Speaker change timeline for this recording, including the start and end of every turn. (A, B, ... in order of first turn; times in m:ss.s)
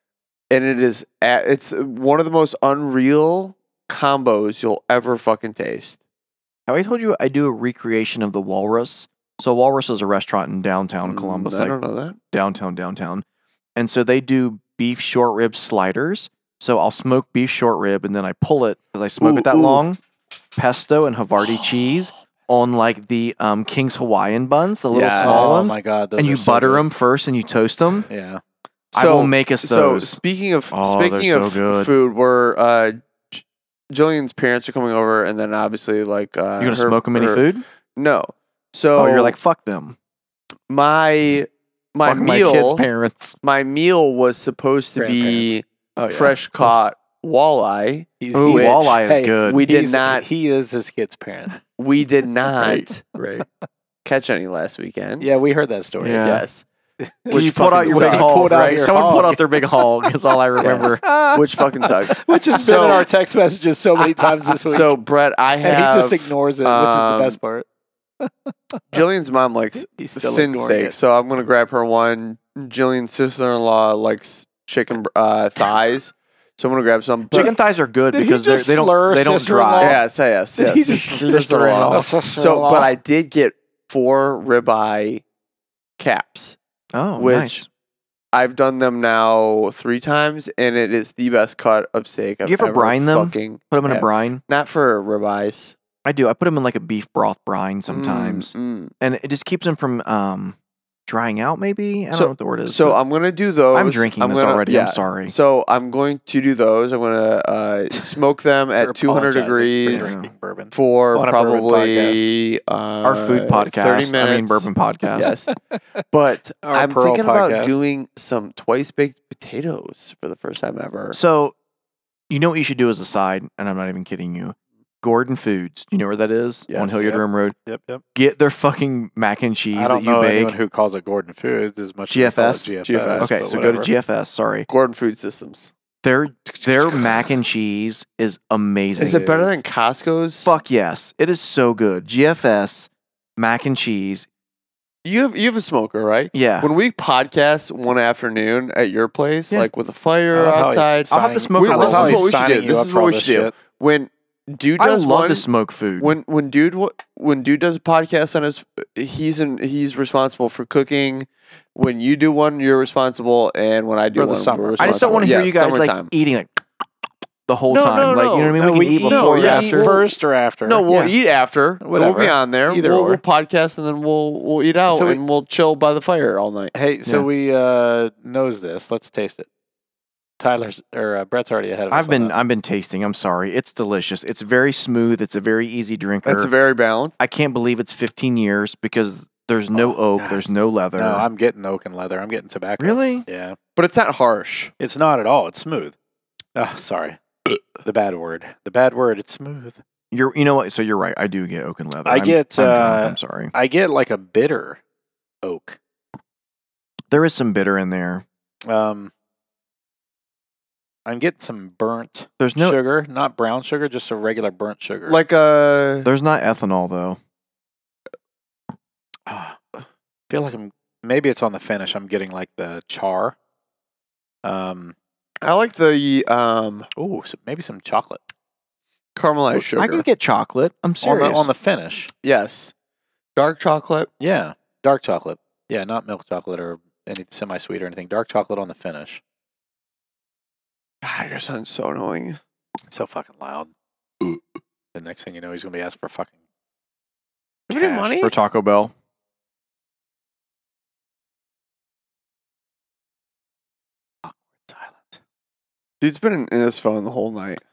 0:00.5-0:06.0 A
0:06.7-0:11.8 B
0:11.0-0:12.2 A
0:12.3-0:13.2 B
0:13.8-0:20.0 B
0:19.2-0:19.8 A
0:20.6-0:28.1 B
0:21.4-0:22.0 A
0:24.9-0:25.7 A
0:25.2-0:26.9 C
0:28.1-0:28.4 C
0:28.9-0:30.2 B
0:28.9-0:39.4 A
0:30.7-0:31.9 B
0:36.6-0:37.6 B
0:39.0-0:40.0 B
0:40.7-0:42.8 A
0:42.0-0:43.4 B
0:43.4-0:48.9 A
0:45.0-0:46.3 C
0:46.1-0:46.8 B
0:48.2-0:51.5 C
0:48.3-0:49.6 B
0:49.4-0:50.2 A
0:51.8-0:53.0 A
0:52.6-0:53.4 B
0:53.2-0:53.4 C
0:54.0-0:55.3 A
0:55.2-0:56.2 C
0:56.0-0:56.4 B
0:56.2-0:56.6 A
0:57.0-0:59.8 C
0:57.3-0:58.8 A
0:57.3-1:01.6 B
1:00.6-1:03.1 A
1:02.1-1:05.0 C
1:04.7-1:07.4 A
1:05.6-1:07.7 C
1:08.2-1:08.8 C
1:08.9-1:17.5 A
1:09.8-1:11.0 C
1:17.3-1:17.6 C
1:17.3-1:20.0 B
1:18.1-1:20.0 C
1:19.8-1:25.2 A
1:20.6-1:22.9 C
1:21.2-1:22.1 B
1:26.0-1:26.6 A
1:26.9-1:27.6 B
1:27.2-1:27.6 A
1:28.3-1:35.8 A
1:32.4-1:34.4 B
1:36.0-1:40.6 B
1:37.9-1:38.9 A
1:41.1-1:43.0 B
1:42.1-1:50.1 A
1:43.7-1:45.3 B
1:48.8-1:52.3 C
1:49.9-1:50.3 B
1:50.7-1:55.5 A
1:53.0-1:55.3 B
1:55.2-1:55.8 C
1:56.1-2:01.2 A
1:56.6-1:57.8 C
2:01.1-2:01.5 B
2:02.3-2:07.6 B
2:06.7-2:07.1 A
2:07.0-2:08.0 C
2:08.1-2:10.5 B
2:09.7-2:13.9 C
2:12.1-2:14.7 B
2:12.8-2:13.5 A
2:14.7-2:15.7 A
2:16.0-2:19.6 B
2:16.6-2:17.1 A
2:19.0-2:20.5 A
2:20.4-2:24.3 B
2:25.0-2:35.5 A
2:26.3-2:26.7 B
2:30.3-2:33.5 C
2:31.1-2:32.3 B
2:34.8-2:36.2 B
2:36.0-2:46.1 A
2:44.1-2:45.4 C
2:44.8-2:46.5 B
2:47.5-2:49.9 B
2:47.7-2:56.7 A
2:48.6-2:50.8 C
2:50.9-2:51.1 B
2:51.8-2:53.2 C
2:54.9-2:55.2 C
2:56.7-2:59.5 C
3:00.4-3:02.3 C
3:01.9-3:06.5 B
3:06.2-3:07.2 A
3:07.2-3:11.2 B
3:11.0-3:13.6 C
3:12.8-3:13.2 B
3:13.8-3:14.7 A
3:14.8-3:15.9 C
3:16.6-3:17.2 C
3:17.8-3:19.8 C
3:20.1-3:23.5 B
3:22.0-3:24.8 C
3:25.4-3:25.8 C
3:27.1-3:28.2 B
3:28.7-3:29.1 C
3:31.0-3:35.2 C
3:32.4-3:32.8 B
3:35.1-3:36.1 A
3:36.0-3:37.2 B
3:39.3-3:39.6 C
3:40.3-3:43.3 C
3:44.4-3:44.9 C
3:45.4-3:46.9 A
3:47.0-3:48.2 C
3:49.2-3:50.0 A
3:49.5-3:51.5 B
3:51.0-3:52.1 C
3:52.2-3:52.7 A
3:53.4-3:54.1 A
3:54.2-3:59.2 C
4:01.0-4:02.4 A
4:02.9-4:03.7 C
4:04.9-4:06.4 C
4:07.7-4:08.3 A
4:07.7-4:08.2 C
4:08.2-4:08.9 B
4:14.2-4:15.2 C
4:16.0-4:17.6 A